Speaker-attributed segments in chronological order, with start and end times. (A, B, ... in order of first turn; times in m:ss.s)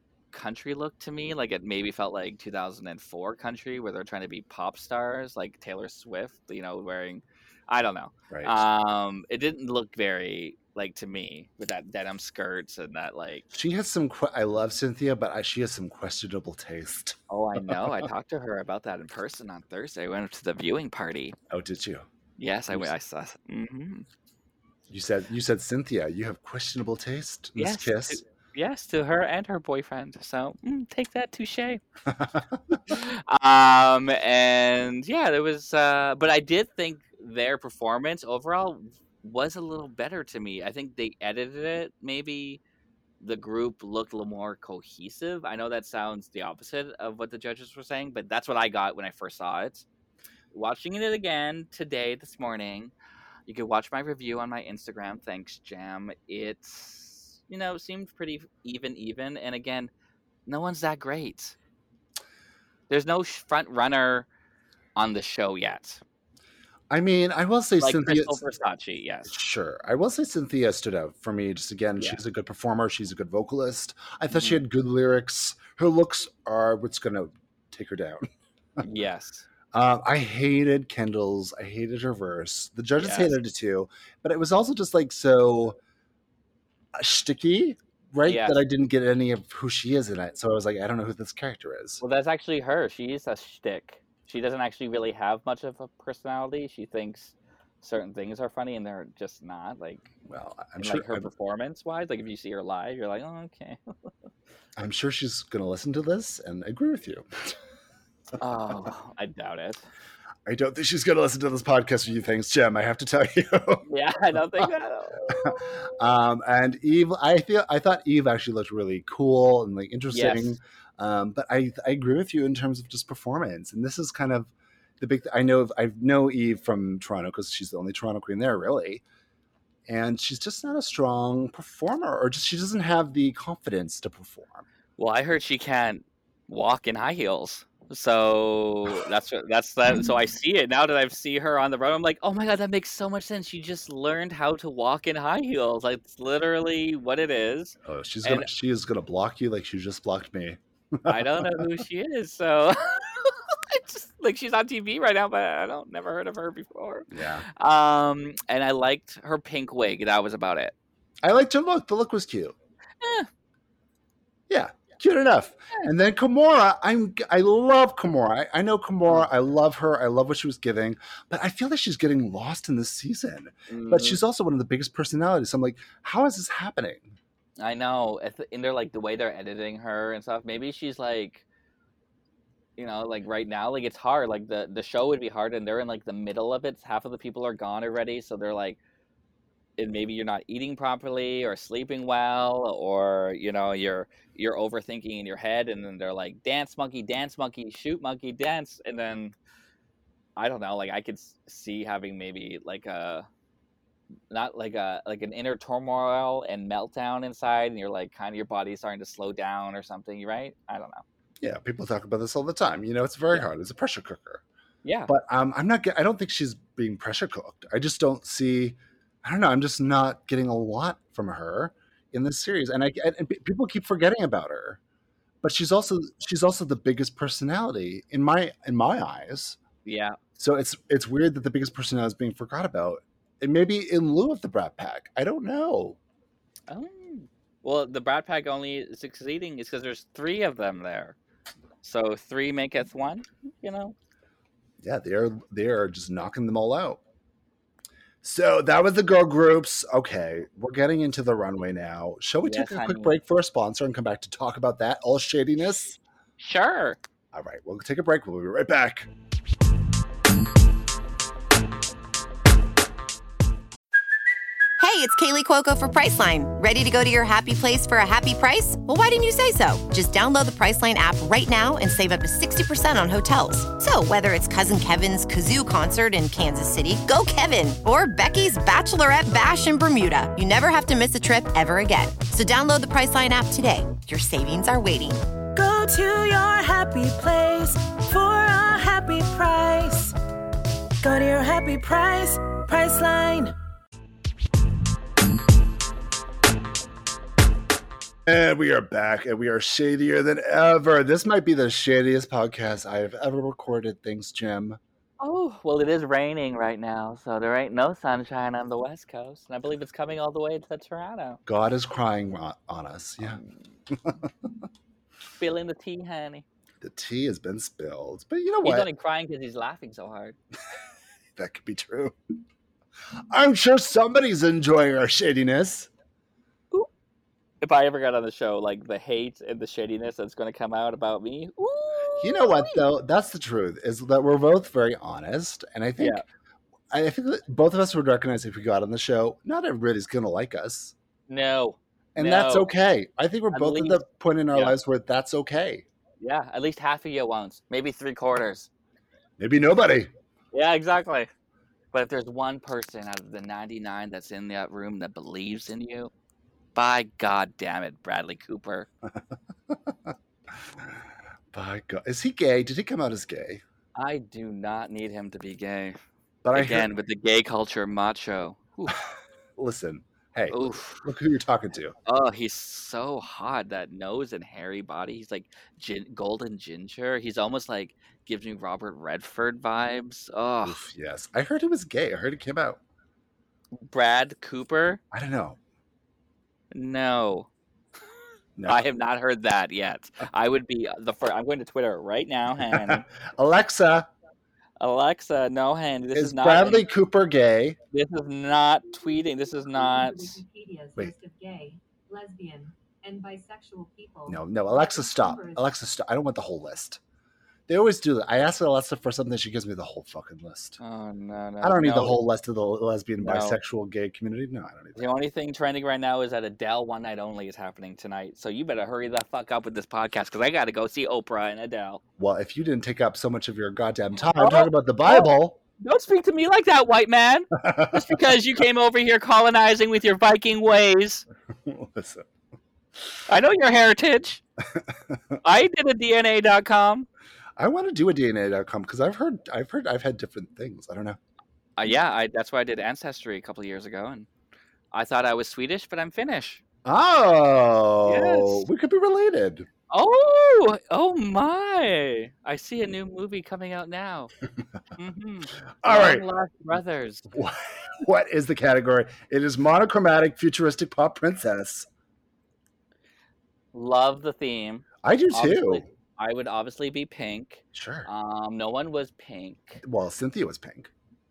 0:00.3-0:13.4 A
0:08.3-0:08.6 B
0:13.5-0:17.8 B
0:17.3-0:21.4 A
0:21.5-0:22.0 B
0:22.4-0:24.0 A
0:24.9-0:28.2 B
0:27.6-0:31.8 A
0:32.1-0:32.8 B
0:32.9-0:42.6 A
0:43.2-0:49.8 A
0:50.5-0:52.9 A
0:53.5-0:59.9 A
1:00.5-1:01.6 A
1:02.9-1:04.3 A
1:05.0-1:06.0 A
1:06.9-1:08.4 B
1:07.8-1:09.3 A
1:09.2-1:18.2 B
1:14.3-1:14.6 A
1:18.8-1:19.5 A
1:19.7-1:25.8 B
1:23.0-1:23.3 A
1:26.9-1:32.0 B
1:28.2-1:28.6 A
1:32.0-1:40.1 A
1:40.2-1:41.3 B
1:40.8-1:44.1 A
1:44.8-1:47.6 B
1:48.4-1:49.8 A
1:50.4-1:53.8 B
1:53.8-1:55.8 A
1:55.3-2:09.0 B
2:00.1-2:00.6 A
2:09.9-2:14.6 B
2:15.0-2:28.5 A
2:27.8-2:31.8 B
2:31.0-2:40.7 A
2:37.1-2:37.4 B
2:41.2-2:42.6 B
2:43.0-2:43.3 A
2:44.5-2:57.1 B
2:53.7-2:54.2 A
2:57.6-3:01.4 A
3:02.8-3:08.8 A
3:09.8-3:19.3 A
3:20.4-3:23.3 A
3:24.3-3:31.0 A
3:31.4-3:34.4 B
3:34.8-3:35.1 A
3:35.1-3:44.8 B
3:45.4-3:49.6 B
3:49.8-3:50.2 A
3:50.4-3:56.0 B
3:56.7-4:01.2 A
4:01.8-4:03.9 A
4:04.8-4:07.0 B
4:08.2-4:16.0 B
4:12.4-4:13.2 A
4:16.4-4:17.0 A
4:17.3-4:19.1 B
4:24.8-4:45.2 C
4:45.5-4:50.1 D
4:51.0-4:53.5 D
4:58.2-5:04.8 B
5:05.2-5:11.4 A
5:11.4-5:13.4 B
5:13.2-5:13.5 A
5:13.9-5:14.3 B
5:15.4-5:16.4 A
5:16.8-5:18.9 B
5:18.6-5:20.4 A
5:21.4-5:22.1 B
5:23.3-5:25.9 B
5:27.6-5:32.8 A
5:32.2-5:36.2 B
5:36.0-5:36.2 A
5:36.9-5:40.9 B
5:41.3-5:42.7 A
5:42.1-5:45.8 B
5:43.5-5:44.0 A
5:46.2-5:48.7 A
5:49.4-5:50.1 B
5:50.5-5:51.3 A
5:51.9-5:56.1 A
5:56.7-5:58.9 A
5:59.7-6:00.1 B
6:01.5-6:03.6 B
6:03.9-6:06.0 A
6:06.4-6:06.9 B
6:06.5-6:09.0 A
6:09.6-6:12.0 B
6:10.5-6:11.0 A
6:12.0-6:20.8 A
6:20.6-6:22.8 B
6:23.8-6:25.0 A
6:25.1-6:25.6 B
6:26.7-6:27.5 A
6:28.6-6:28.8 B
6:28.6-6:33.0 A
6:32.6-6:34.1 B
6:34.8-6:36.8 A
6:36.1-6:37.8 B
6:37.9-6:40.4 A
6:39.7-6:45.6 E
6:44.3-6:47.0 B
6:47.7-6:50.8 B
6:50.8-6:52.2 A
6:51.6-6:55.0 B
6:53.2-6:53.6 A
6:55.0-7:02.0 A
7:02.2-7:05.6 B
7:04.3-7:11.2 A
7:07.6-7:08.2 B
7:11.6-7:12.3 B
7:13.3-7:14.4 A
7:14.8-7:15.4 B
7:15.4-7:17.1 A
7:17.6-7:21.2 B
7:21.8-7:24.3 A
7:24.9-7:26.6 A
7:26.8-7:29.7 B
7:28.0-7:28.6 A
7:29.9-7:34.3 A
7:35.0-7:37.2 A
7:35.8-7:36.2 B
7:37.3-7:41.9 B
7:43.7-7:49.8 A
7:45.0-7:45.8 B
7:47.7-7:48.1 B
7:49.8-7:50.9 B